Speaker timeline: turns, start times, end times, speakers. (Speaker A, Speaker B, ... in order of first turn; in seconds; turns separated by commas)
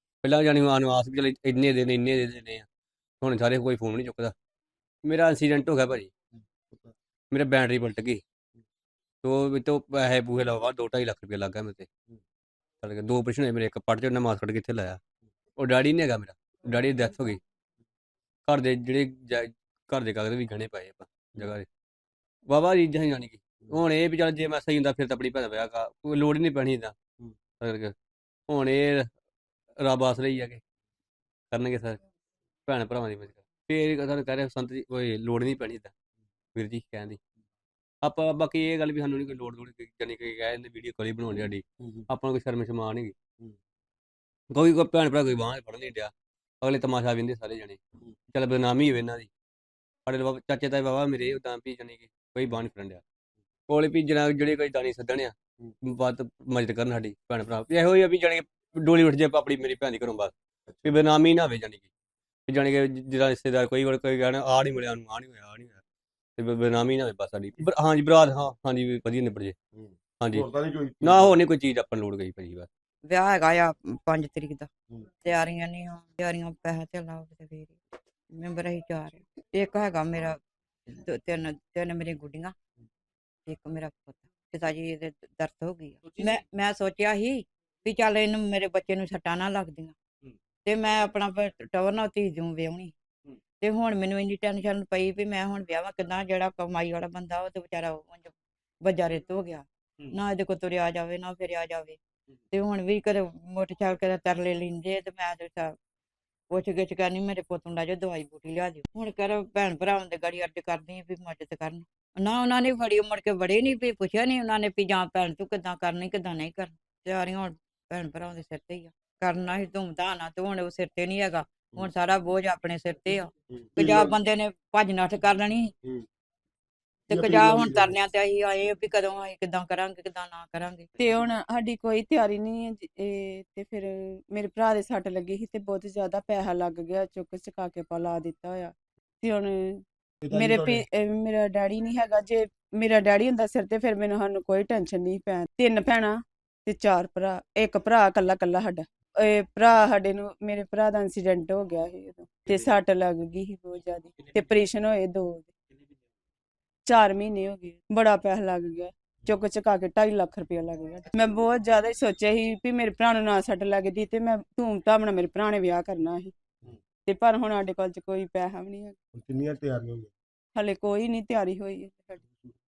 Speaker A: 0.2-2.7, Speaker A: 3.2-4.3, Speaker A: 5.0-6.1, Speaker A: 7.3-8.2, Speaker A: 9.2-11.9, Speaker A: 12.8-15.0, Speaker A: 15.6-17.4, Speaker A: 18.5-21.7, Speaker A: 22.5-27.0, Speaker A: 27.6-27.9, Speaker A: 28.5-29.1, Speaker A: 29.8-30.6, Speaker A: 31.5-32.0, Speaker A: 32.7-35.9, Speaker A: 36.5-37.2, Speaker A: 38.0-43.1, Speaker A: 44.5-47.8, Speaker A: 48.3-49.3, Speaker A: 50.1-53.0, Speaker A: 53.7-60.3, Speaker A: 60.9-61.9, Speaker A: 62.5-65.8, Speaker A: 66.4-69.6, Speaker B: 69.8-71.4, Speaker A: 70.2-70.5, Speaker A: 71.0-72.7, Speaker C: 73.0-74.7, Speaker C: 75.2-77.8, Speaker C: 78.3-80.4, Speaker C: 80.9-82.5, Speaker C: 83.5-90.0, Speaker C: 90.7-93.0, Speaker C: 93.6-102.0, Speaker C: 102.5-105.8, Speaker C: 106.5-125.7, Speaker B: 123.7-124.2, Speaker C: 127.1-130.9, Speaker B: 127.1-128.0, Speaker D: 131.0-155.5, Speaker B: 140.2-140.8, Speaker D: 156.9-166.3, Speaker D: 167.1-169.0, Speaker B: 169.1-170.1, Speaker D: 170.6-172.2